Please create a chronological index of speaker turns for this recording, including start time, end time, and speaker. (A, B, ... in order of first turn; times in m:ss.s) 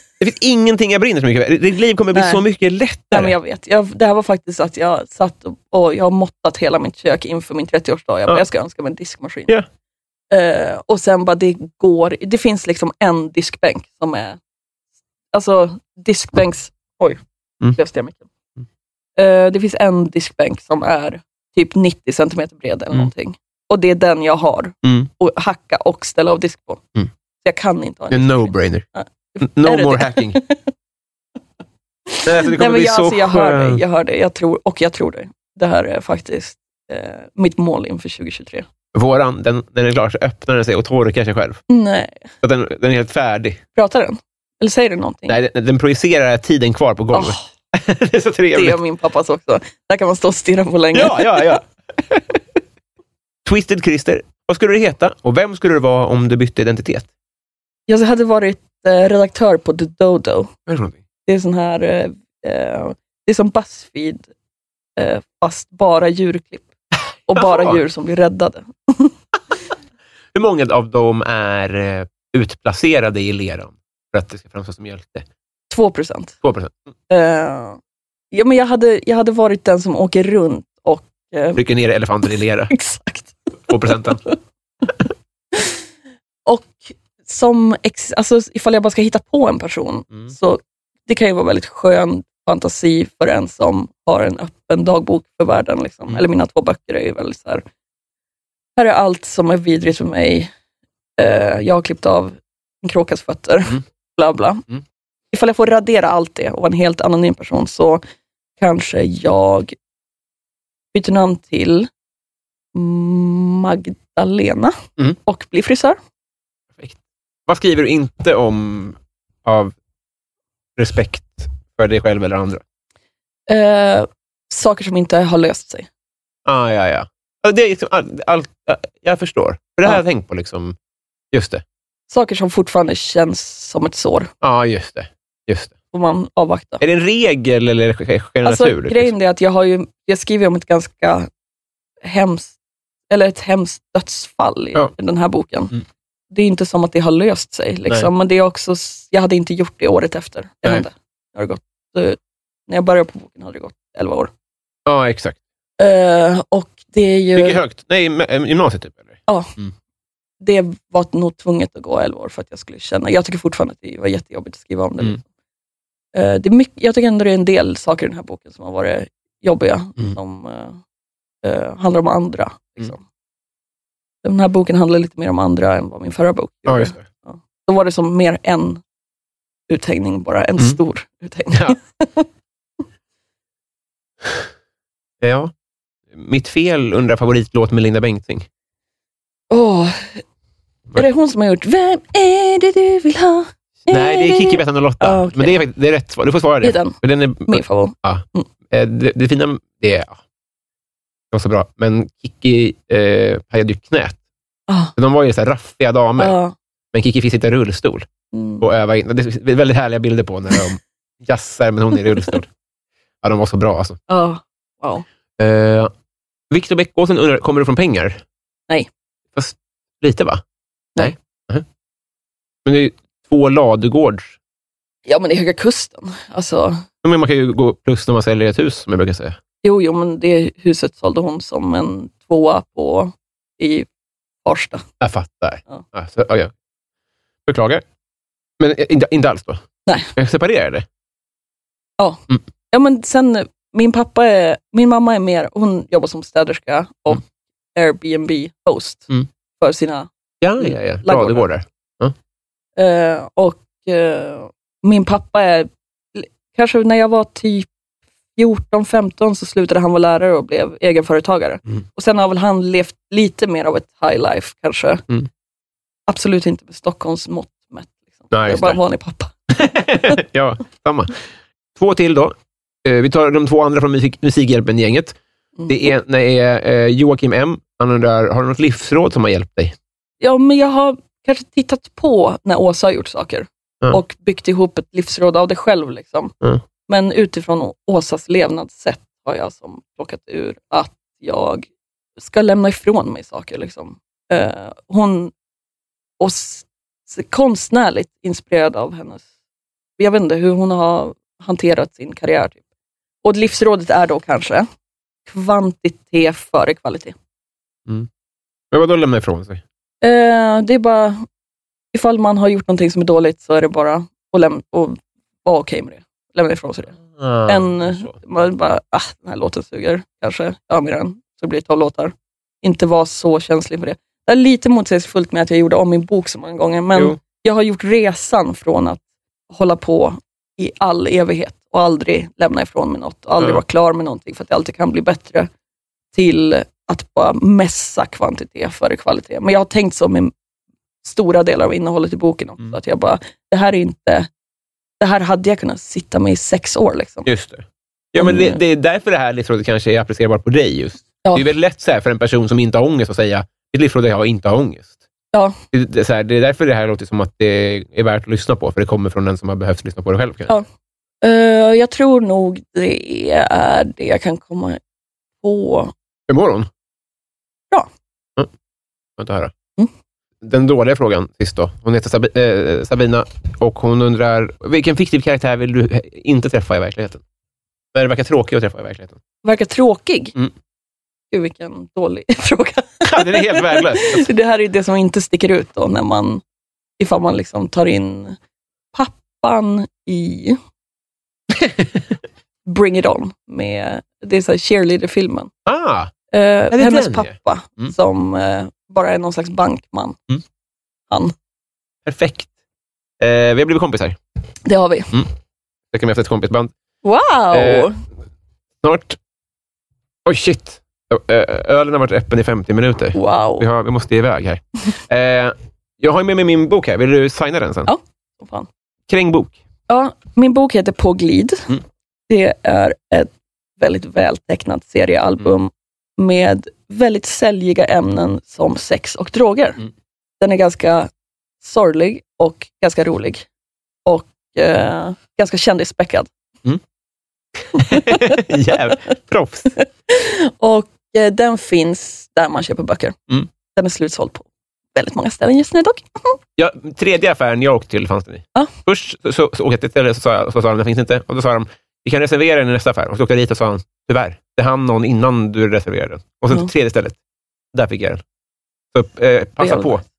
0:00.2-0:03.3 A
0:02.1-0:02.4 B
0:03.1-0:09.5 B
0:10.3-0:14.4 B
0:15.3-0:17.2 B
0:17.8-0:18.2 B
0:19.2-0:26.8 B
0:24.8-0:25.1 A
0:27.4-0:30.6 B
0:28.1-0:28.8 A
0:29.4-0:30.4 A
0:32.1-0:38.7 B
0:32.2-0:33.8 A
0:38.9-0:41.6 A
0:41.7-0:42.3 B
0:42.4-0:43.6 A
0:43.8-0:45.4 B
0:45.3-0:48.8 A
0:47.1-0:47.4 B
0:48.5-0:51.6 B
0:50.9-0:52.4 A
0:53.4-0:57.1 A
0:57.9-1:00.5 B
1:00.7-1:01.0 A
1:01.3-1:04.3 B
1:05.0-1:06.7 B
1:07.3-1:09.1 B
1:07.3-1:07.8 A
1:10.3-1:15.3 A
1:15.7-1:16.4 B
1:16.4-1:16.7 A
1:17.1-1:17.8 B
1:18.3-1:21.6 B
1:21.6-1:22.7 A
1:22.7-1:24.4 B
1:23.7-1:24.2 A
1:25.5-1:25.8 B
1:26.5-1:37.6 B
1:38.8-1:40.5 B
1:41.2-1:44.7 B
1:45.3-1:48.0 B
1:48.6-1:49.8 B
1:50.9-1:51.9 B
1:52.8-1:56.0 B
1:56.8-1:59.8 A
2:00.8-2:02.6 A
2:03.5-2:05.9 B
2:06.5-2:10.8 A
2:11.3-2:11.6 A
2:12.1-2:14.3 B
2:14.4-2:15.7 A
2:15.9-2:16.8 B
2:16.8-2:19.1 A
2:18.4-2:21.3 B
2:22.0-2:22.6 B
2:23.1-2:25.7 B
2:26.3-2:34.3 B
2:34.9-2:35.4 A
2:35.8-2:37.6 B
2:37.4-2:39.7 A
2:39.3-2:39.5 B
2:40.4-2:45.2 B
2:46.1-2:50.8 B
2:51.4-2:53.0 B
2:54.2-2:58.8 B
2:56.7-2:57.0 A
2:59.7-3:02.3 B
3:01.5-3:01.8 A
3:05.2-3:05.5 A
3:06.1-3:08.5 A
3:09.5-3:10.2 B
3:11.0-3:15.6 B
3:13.9-3:20.2 A
3:16.6-3:18.5 B
3:21.3-3:24.2 A
3:24.7-3:24.9 B
3:25.0-3:26.4 A
3:26.2-3:26.5 B
3:26.9-3:28.1 A
3:28.3-3:28.6 B
3:28.6-3:32.5 A
3:33.2-3:34.0 A
3:34.1-3:35.0 B
3:35.4-3:35.9 A
3:36.5-3:38.2 A
3:39.3-3:40.4 A
3:41.0-3:41.6 A
3:42.6-3:44.4 A
3:45.1-3:46.8 B
3:47.0-3:49.4 A
3:49.6-3:53.9 B
3:54.4-3:54.8 B
3:55.0-3:56.5 A
3:57.5-3:57.8 A
3:58.6-3:59.6 A
4:00.2-4:00.9 A
4:02.0-4:07.2 B
4:07.8-4:09.1 B
4:09.6-4:10.1 B
4:10.4-4:12.1 A
4:10.6-4:11.5 B
4:12.8-4:17.7 B
4:18.4-4:25.0 B
4:26.1-4:29.3 B
4:28.3-4:28.8 A
4:29.5-4:31.2 A
4:31.8-4:35.2 A
4:35.7-4:39.8 A
4:40.2-4:46.3 B
4:46.9-4:55.3 B
4:56.2-4:59.3 B
5:00.0-5:02.6 B
5:03.2-5:04.7 B
5:05.3-5:07.2 B
5:08.7-5:09.6 A
5:10.0-5:11.2 B
5:11.9-5:35.5 B
5:17.1-5:18.1 A
5:26.9-5:27.2 A
5:36.1-5:40.3 B
5:41.0-5:44.3 B
5:45.0-5:47.3 B
5:47.2-5:54.9 A
5:48.2-5:48.6 B
5:55.3-5:55.6 B
5:55.7-6:00.5 A
6:01.2-6:04.8 B
6:05.4-6:05.9 B
6:06.3-6:06.7 A
6:09.2-6:09.5 A
6:10.4-6:17.2 A
6:17.9-6:19.2 A
6:19.4-6:20.4 B
6:21.3-6:26.4 B
6:23.0-6:24.3 A
6:27.0-6:28.4 B
6:28.9-6:30.6 B
6:31.6-6:31.9 A
6:32.7-6:35.5 B
6:35.7-6:36.1 A
6:36.3-6:40.2 B
6:36.7-6:37.9 A
6:42.0-6:42.5 A
6:43.2-6:44.2 A
6:44.6-6:45.1 B
6:45.9-6:46.7 A
6:47.0-6:48.0 B
6:47.5-6:47.9 A
6:48.8-6:49.2 A
6:50.2-6:57.9 A
6:53.1-6:53.7 B
6:57.9-6:58.7 B
6:59.1-6:59.6 A
6:59.9-7:01.7 B
7:02.3-7:09.8 B
7:10.4-7:11.1 B
7:11.6-7:13.5 B
7:14.1-7:16.3 B
7:17.7-7:19.7 A
7:17.8-7:18.5 B
7:19.8-7:23.2 B
7:23.7-7:26.4 B
7:26.6-7:37.2 A
7:37.7-7:38.2 A
7:38.9-7:40.0 A
7:39.6-7:40.0 B